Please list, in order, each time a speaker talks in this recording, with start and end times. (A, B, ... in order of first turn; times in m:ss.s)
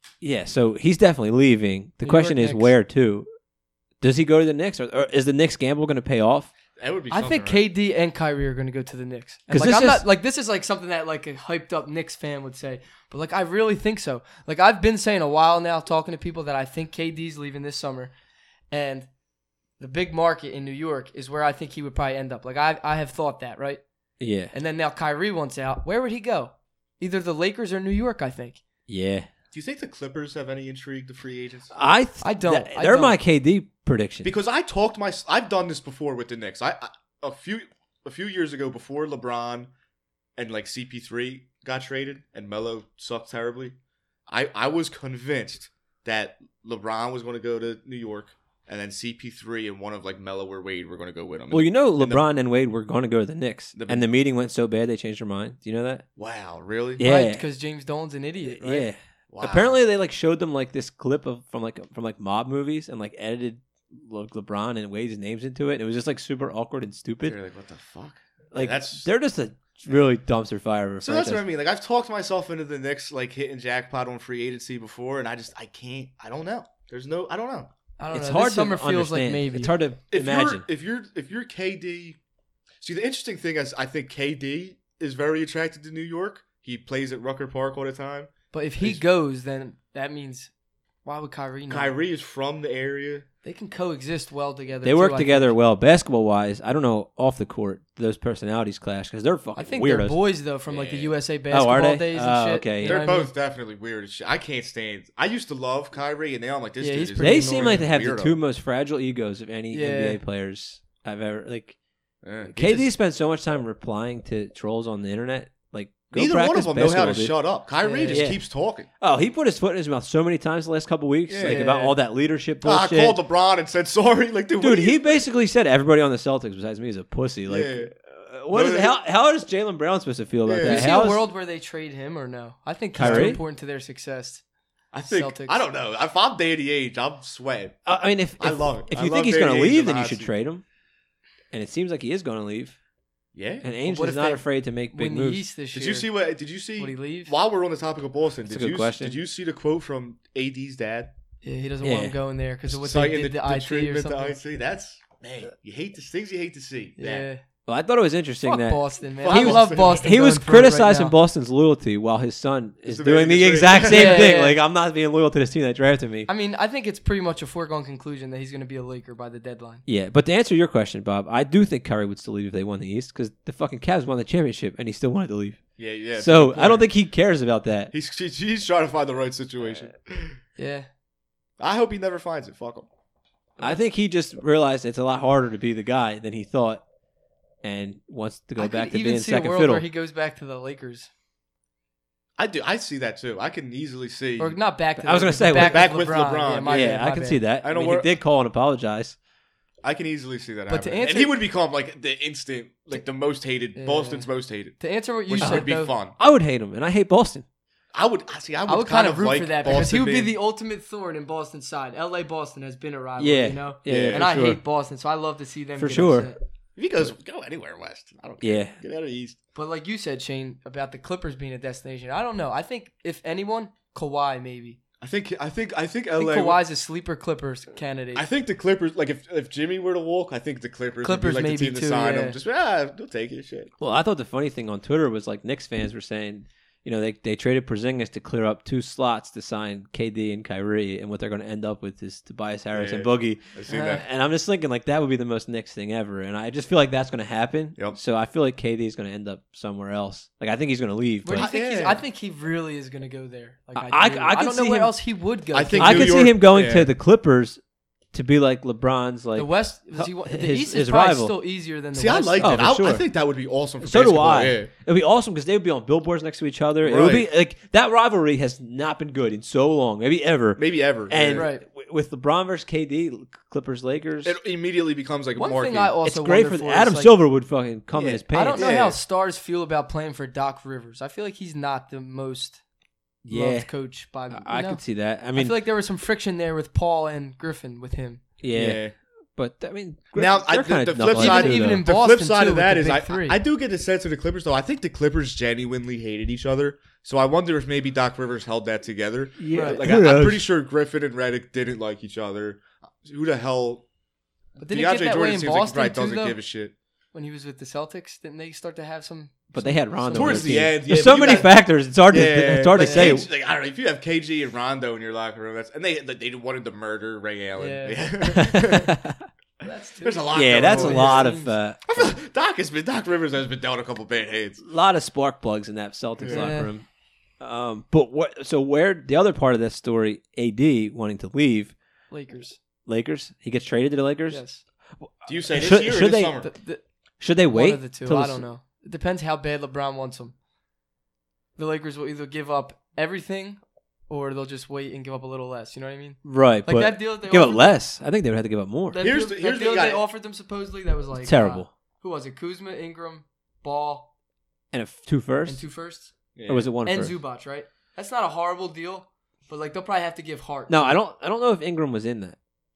0:00.2-0:03.3 A
0:02.0-0:02.7 B
0:04.0-0:06.5 A
0:06.8-0:07.6 C
0:07.1-0:18.1 B
0:09.5-0:10.0 A
0:18.7-0:19.1 B
0:19.8-0:23.8 B
0:24.2-0:24.5 A
0:24.5-0:28.6 B
0:28.9-0:29.3 A
0:29.5-0:31.7 C
0:31.7-0:34.3 A
0:32.2-0:33.2 B
0:34.2-0:39.7 C
0:40.4-0:43.8 C
0:44.3-0:52.2 C
0:51.5-0:56.0 A
0:53.7-0:54.1 C
0:56.2-0:57.0 C
0:57.0-0:57.4 A
0:57.0-0:58.9 B
0:58.5-1:07.4 A
0:59.3-0:59.8 C
1:07.2-1:09.1 C
1:08.5-1:11.4 A
1:11.0-1:17.7 C
1:18.0-1:19.7 B
1:18.1-1:20.6 A
1:20.1-1:22.2 C
1:22.8-1:29.0 C
1:28.5-1:30.5 B
1:31.0-1:31.9 B
1:31.7-1:33.3 C
1:33.4-1:35.6 B
1:34.8-1:40.2 A
1:39.6-1:43.3 B
1:40.7-1:41.2 C
1:41.5-1:43.1 A
1:42.8-1:48.4 C
1:46.8-1:47.8 B
1:47.2-1:51.8 A
1:49.7-1:50.2 B
1:52.2-1:52.9 C
1:52.5-1:57.4 A
1:56.1-1:58.9 C
1:57.8-1:58.2 B
1:58.1-1:58.4 A
1:59.0-2:03.2 A
2:01.3-2:01.6 C
2:01.4-2:02.0 B
2:02.6-2:05.2 C
2:04.6-2:11.2 A
2:07.5-2:07.9 C
2:08.5-2:09.0 C
2:10.5-2:10.9 C
2:10.6-2:14.4 B
2:13.0-2:13.4 A
2:13.0-2:13.4 C
2:14.9-2:17.8 C
2:15.1-2:15.6 B
2:17.8-2:20.6 A
2:18.4-2:20.3 C
2:21.5-2:22.8 A
2:23.3-2:23.7 C
2:23.6-2:25.4 A
2:23.8-2:26.1 B
2:25.7-2:31.1 C
2:26.8-2:27.3 B
2:28.5-2:29.2 A
2:31.4-2:34.4 B
2:31.8-2:32.2 A
2:32.7-2:37.3 C
2:37.0-2:37.4 B
2:37.7-2:46.3 A
2:38.4-2:41.2 B
2:39.2-2:40.1 C
2:42.9-2:44.4 C
2:43.9-2:44.6 B
2:46.3-2:49.8 B
2:49.9-2:55.6 A
2:55.8-2:56.9 C
2:56.2-2:57.9 A
2:57.9-3:00.4 C
3:00.6-3:00.9 B
3:01.6-3:02.9 C
3:03.6-3:06.8 A
3:07.6-3:09.8 A
3:08.6-3:11.1 B
3:12.4-3:14.6 C
3:14.4-3:17.4 B
3:15.0-3:15.9 A
3:15.5-3:17.0 C
3:16.7-3:19.2 A
3:17.6-3:18.1 C
3:19.8-3:26.2 C
3:20.7-3:21.4 B
3:23.8-3:25.9 B
3:25.4-3:27.4 A
3:27.9-3:30.3 C
3:28.7-3:36.4 B
3:33.2-3:34.6 A
3:33.9-3:34.3 C
3:35.8-3:36.3 A
3:36.8-3:39.4 C
3:38.4-3:38.8 A
3:39.6-3:44.8 B
3:45.0-3:46.6 C
3:46.2-3:48.3 B
3:48.2-3:53.7 C
3:51.0-3:52.4 B
3:53.8-4:11.5 A
4:02.7-4:04.0 C
4:03.7-4:04.0 B
4:11.2-4:16.2 B
4:11.4-4:12.0 C
4:13.8-4:14.9 A
4:15.5-4:16.9 C
4:15.8-4:17.6 A
4:18.1-4:21.3 A
4:19.4-4:22.6 B
4:21.9-4:24.7 C
4:22.4-4:23.1 A
4:23.8-4:34.4 A
4:26.8-4:27.3 C
4:30.6-4:31.5 C
4:31.3-4:31.6 B
4:34.2-4:35.9 C
4:35.4-4:37.1 B
4:36.0-4:38.6 A
4:37.9-4:39.0 C
4:38.3-4:42.6 B
4:43.2-4:43.7 A
4:43.3-4:48.2 B
4:44.3-4:45.6 A
4:48.4-4:48.8 A
4:48.5-4:49.0 C
4:49.4-4:51.8 A
4:50.2-5:03.8 C
4:51.2-4:53.4 B
4:59.4-5:00.5 A
4:59.5-4:59.8 B
5:04.6-5:06.4 B
5:04.7-5:06.7 C
5:07.1-5:10.7 B
5:09.5-5:13.3 A
5:10.1-5:19.0 C
5:12.8-5:13.2 B
5:17.6-5:18.0 B
5:18.2-5:19.2 A
5:19.6-5:21.5 B
5:20.0-5:24.6 C
5:20.3-5:22.2 A
5:24.6-5:26.9 A
5:26.2-5:26.5 C
5:26.3-5:26.7 B
5:27.4-5:31.8 A
5:32.1-5:32.6 B
5:32.9-5:34.4 A
5:34.3-5:34.6 B
5:35.0-5:36.4 A
5:35.3-5:36.5 C
5:36.3-5:36.8 B
5:37.2-5:38.4 A
5:37.5-5:40.3 B
5:41.6-5:47.7 B
5:46.2-5:49.0 A
5:48.9-5:54.1 B
5:49.0-5:50.0 C
5:51.2-5:51.7 A
5:54.7-5:55.6 A
5:55.5-5:56.2 B
5:56.4-5:56.7 C
5:56.5-5:57.2 A
5:56.9-6:01.0 B
6:00.7-6:02.4 A